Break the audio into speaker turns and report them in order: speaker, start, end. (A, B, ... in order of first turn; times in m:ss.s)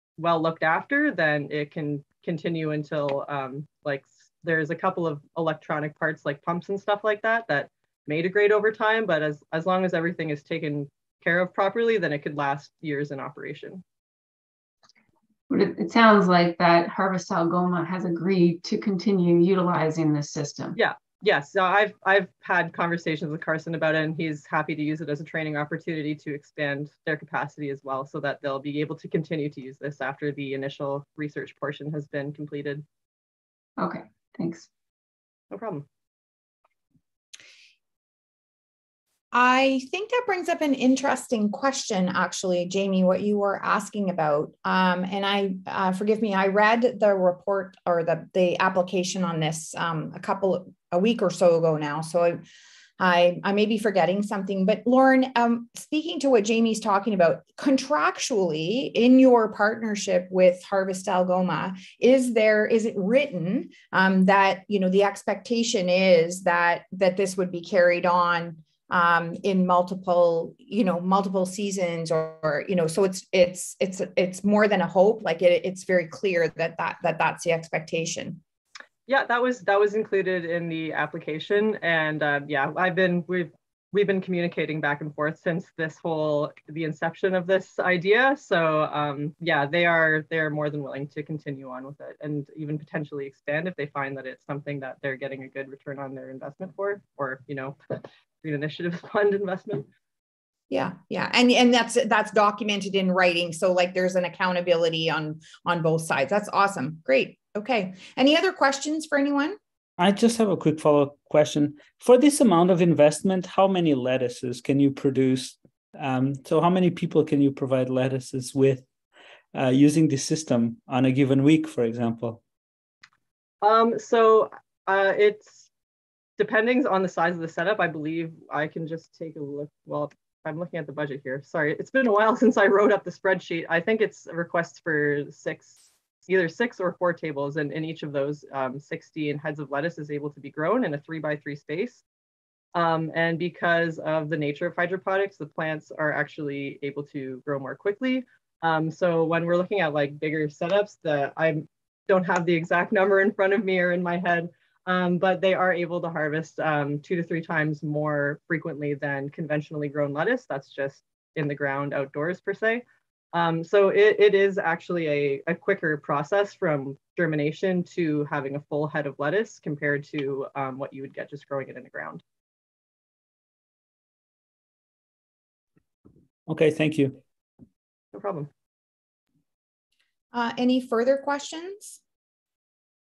0:00.2-0:13.8 A
0:15.5-0:20.8 B
0:20.8-0:32.8 A
0:33.8-0:34.7 B
0:35.5-0:35.8 A
0:39.3-0:52.4 C
0:53.0-1:18.4 C
1:19.1-1:37.8 A
1:38.4-1:39.9 A
1:40.7-1:49.6 C
1:50.0-1:58.8 D
1:59.5-2:02.4 D
2:03.6-2:05.7 A
2:06.4-2:22.0 A
2:22.7-2:52.2 A
2:56.5-2:57.2 D
2:58.1-2:58.5 A
3:00.3-3:02.0 C